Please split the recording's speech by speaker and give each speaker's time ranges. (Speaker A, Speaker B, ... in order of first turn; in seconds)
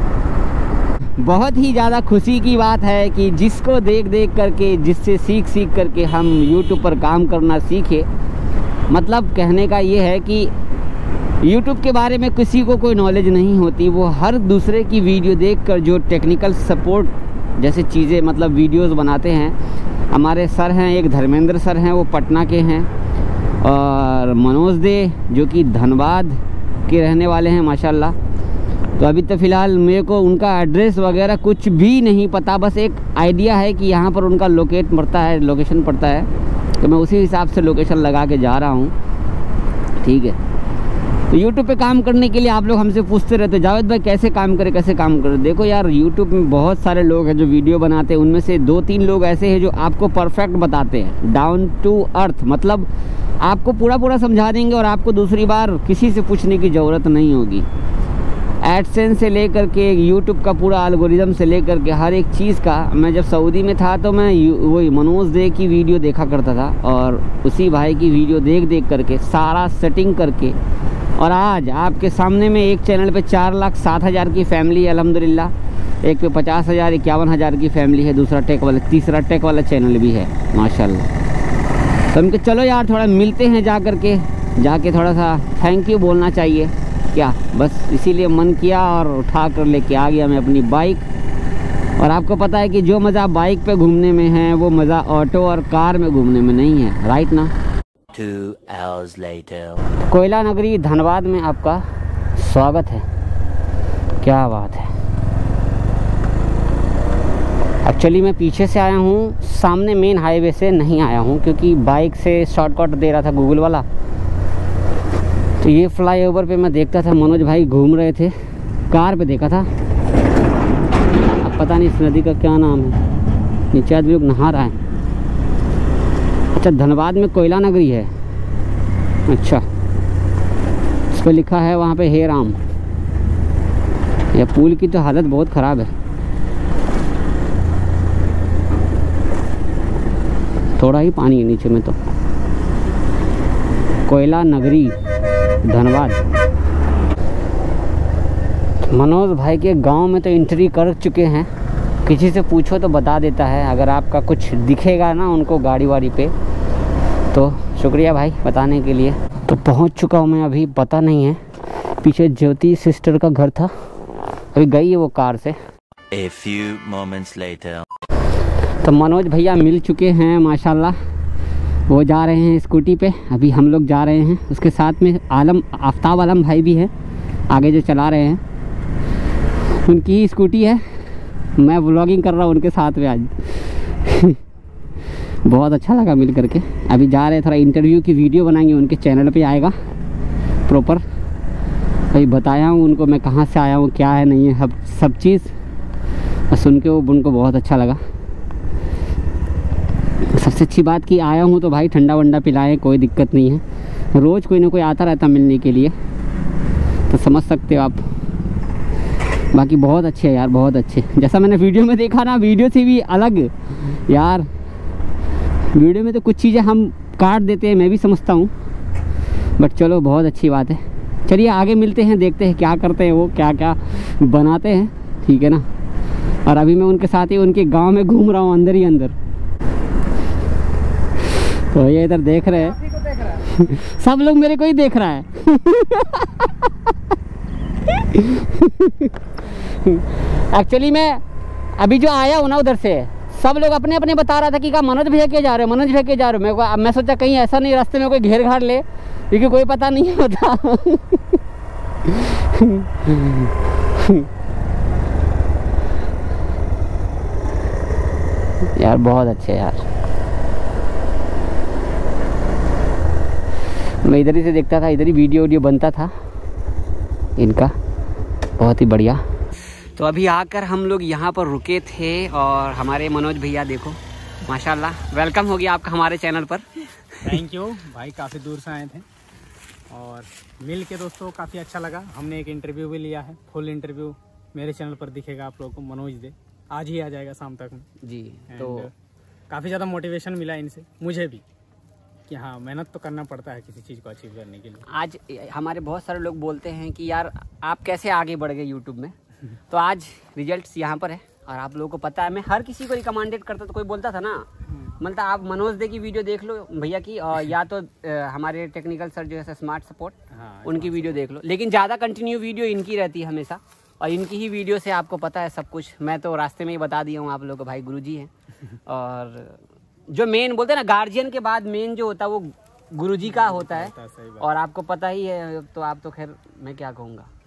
Speaker A: 1.2-8.1, 8.9-10.5, 11.4-19.6, 20.1-22.9, 23.6-28.2, 29.0-38.9, 40.0-40.4, 41.3-57.7, 58.6-70.6, 71.2-81.1, 82.1-91.1, 92.0-97.5, 100.1-101.8, 102.3-103.0, 104.2-104.9, 107.8-113.9, 115.6-118.3, 118.9-119.7, 121.4-123.0, 123.7-124.8, 126.5-128.1, 129.3-129.7, 131.1-132.6, 134.3-135.9, 140.8-142.0, 144.1-145.0, 145.6-146.3, 148.9-151.5, 152.0-156.3, 157.3-161.4, 162.0-163.7, 164.5-165.6, 168.8-171.0, 171.9-176.9, 177.5-178.4, 179.7-180.8, 181.6-184.4, 185.4-189.8, 190.7-191.0, 192.1-195.5, 196.5-198.0, 200.3-205.9, 207.1-208.0, 209.5-214.5, 215.7-218.5, 219.6-225.7, 226.4-229.2, 231.3-236.9, 237.8-241.2, 241.8-251.4, 252.0-254.3, 258.8-259.9, 264.0-266.1, 267.4-267.8, 268.6-277.3, 288.0-288.9, 294.9-304.5, 305.0-318.3, 318.9-327.3
Speaker B: 98.1-99.9, 166.1-167.8
Speaker C: 277.2-279.1, 279.9-287.9, 288.5-288.9, 289.5-291.4, 292.3-294.9, 304.7-305.0, 310.3-311.2, 323.2-324.5